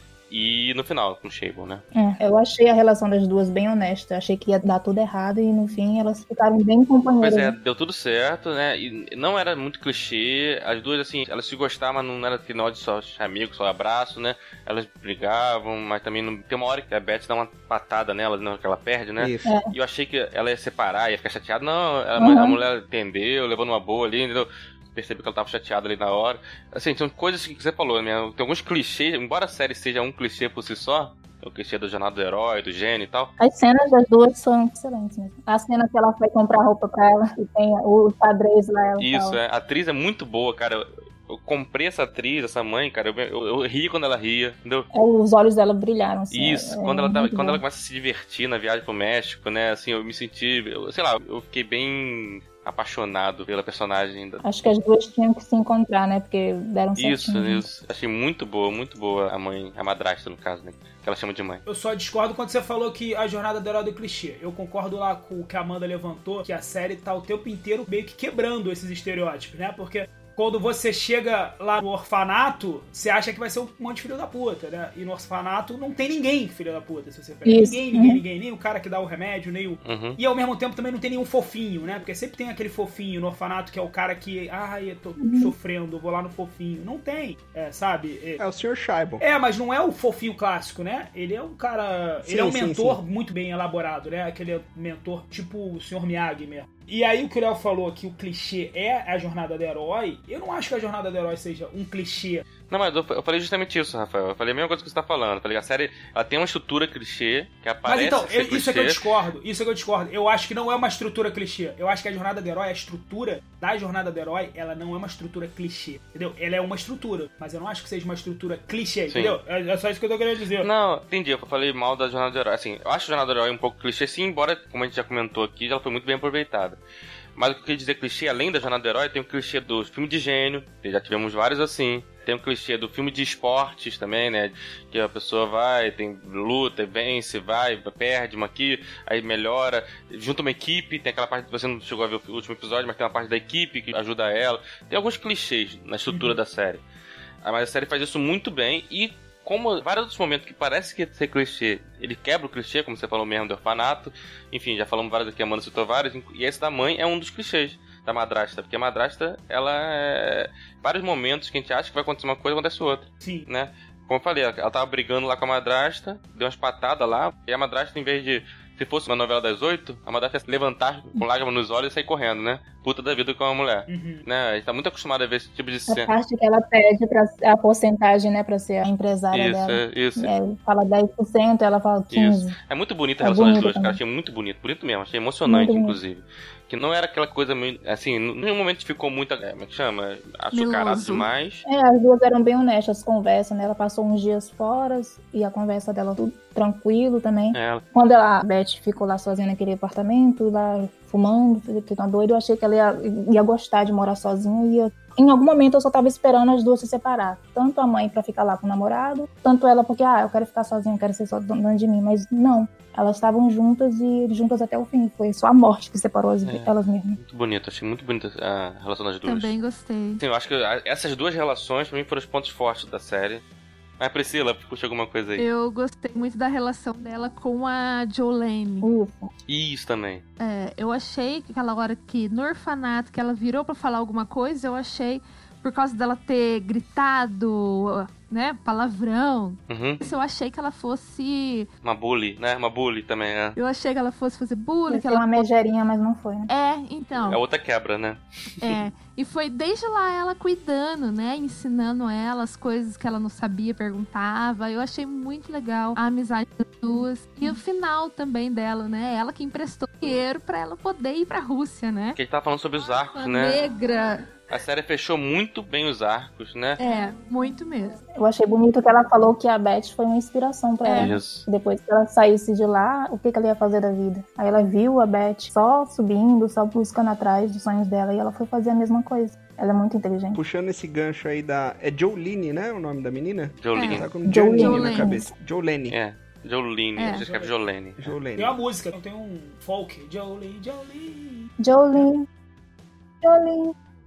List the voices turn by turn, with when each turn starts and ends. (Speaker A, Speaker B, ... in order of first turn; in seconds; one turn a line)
Speaker A: 0.3-1.8
Speaker B: 1.9-7.5
Speaker A: 7.2-33.3
Speaker C: 19.2-19.5
Speaker B: 19.4-19.7
Speaker B: 22.2-22.6
Speaker B: 33.4-39.4
Speaker A: 39.0-44.9
Speaker B: 44.9-47.6
Speaker A: 46.3-54.4
Speaker B: 54.4-57.6
Speaker A: 57.0-61.6
Speaker D: 61.6-88.4
Speaker B: 77.5-78.2
Speaker A: 79.8-80.2
Speaker B: 85.2-85.5
Speaker C: 88.4-89.2
Speaker D: 89.2-102.4
Speaker C: 92.2-93.0
Speaker A: 102.7-109.0
Speaker D: 107.8-120.7
Speaker A: 119.1-119.4
Speaker A: 120.6-126.8
Speaker A: 127.4-146.8
Speaker D: 146.1-146.4
Speaker A: 147.4-176.1
Speaker D: 163.2-163.5
Speaker D: 173.9-174.2
Speaker B: 175.9-182.5
Speaker A: 179.3-180.3
Speaker A: 182.1-191.6
Speaker B: 183.2-184.0
Speaker B: 185.4-186.0
Speaker E: 190.5-191.3
Speaker B: 191.6-217.2
Speaker A: 197.5-197.8
Speaker A: 216.4-219.5
Speaker E: 219.2-220.2
Speaker A: 220.2-223.4
Speaker A: 224.0-225.4
Speaker E: 225.4-228.9
Speaker B: 228.8-229.3
Speaker A: 229.5-230.2
Speaker E: 230.4-241.7
Speaker A: 239.7-240.0
Speaker A: 241.8-243.6
Speaker E: 243.6-245.5
Speaker B: 244.9-246.5
Speaker E: 246.5-247.4
Speaker A: 247.3-248.2
Speaker E: 248.6-262.2
Speaker A: 262.1-263.6
Speaker E: 262.8-264.3
Speaker A: 264.5-266.8
Speaker E: 266.8-268.0
Speaker B: 268.2-280.4
Speaker E: 270.8-271.2
Speaker A: 270.9-271.5
Speaker C: 280.3-285.9
Speaker A: 283.6-284.1
Speaker E: 283.7-285.2
Speaker B: 284.2-285.3
Speaker A: 285.9-288.0
Speaker E: 287.0-287.2
Speaker D: 287.1-287.5
Speaker C: 288.0-288.6
Speaker D: 288.4-291.5
Speaker B: 291.6-292.3
Speaker B: 293.2-293.7